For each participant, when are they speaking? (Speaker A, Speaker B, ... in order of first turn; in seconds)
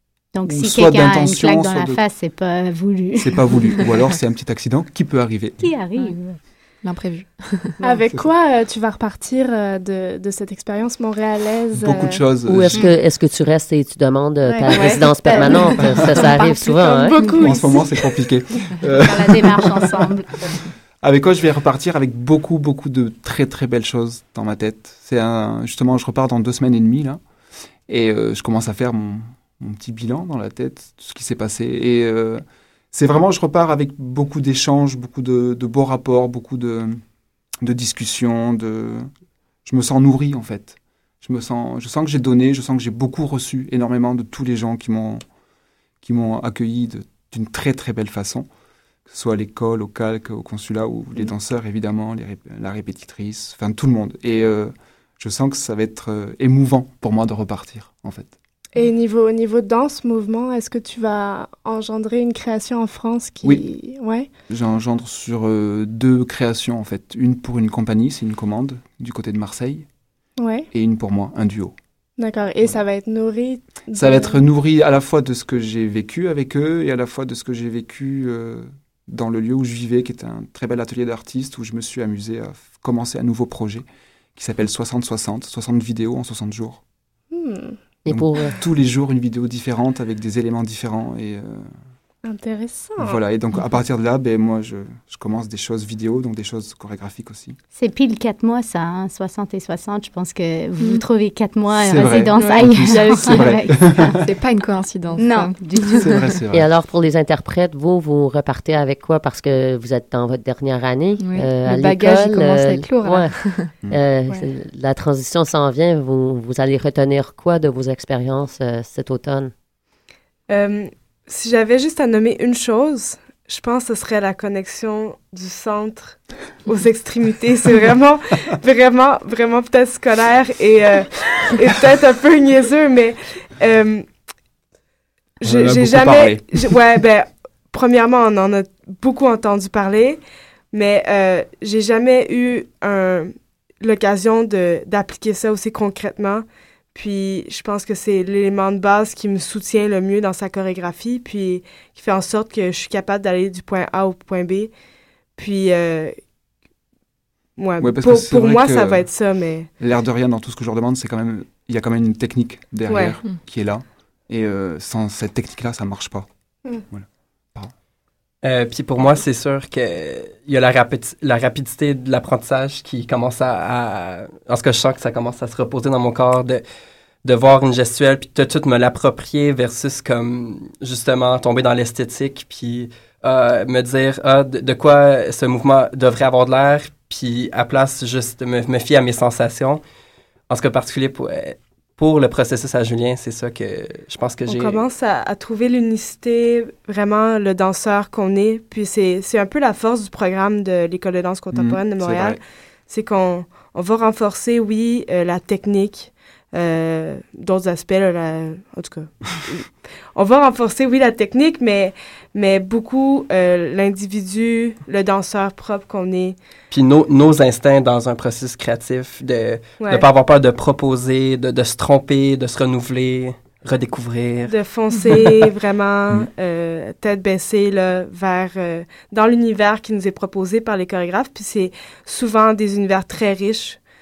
Speaker A: 0.3-3.8, 5.6-6.4, 7.8-8.2, 19.0-20.3, 97.8-104.1, 105.2-106.1
Speaker B: 0.5-2.0, 3.1-5.7, 11.7-12.9, 17.4-20.1, 21.0-27.2, 27.9-37.0, 37.6-39.1, 39.6-45.2, 46.0-48.5, 49.1-58.4, 63.4-63.7, 64.5-69.9, 70.7-71.8, 73.9-86.8, 88.1-91.7, 93.0-97.6, 101.8-104.3, 106.0-106.7, 135.4-136.7, 157.8-159.3, 159.8-166.3, 166.9-167.7, 201.5-202.4
Speaker C: 6.0-7.8, 14.7-15.5, 16.2-16.5, 102.6-106.1, 111.2-113.8
Speaker D: 7.8-12.3, 14.4-18.7, 58.8-64.3, 70.4-70.7, 72.2-74.5, 87.3-87.8, 92.2-93.2, 102.4-103.2
Speaker E: 12.4-17.2, 88.0-88.5, 106.5-119.5
Speaker F: 120.5-134.1, 135.4-154.7, 155.4-156.2, 157.6-159.7, 162.9-163.2, 194.5-216.4, 219.8-220.1, 224.5-233.8
Speaker G: 168.4-176.6, 177.2-189.8, 190.5-194.8, 216.7-225.2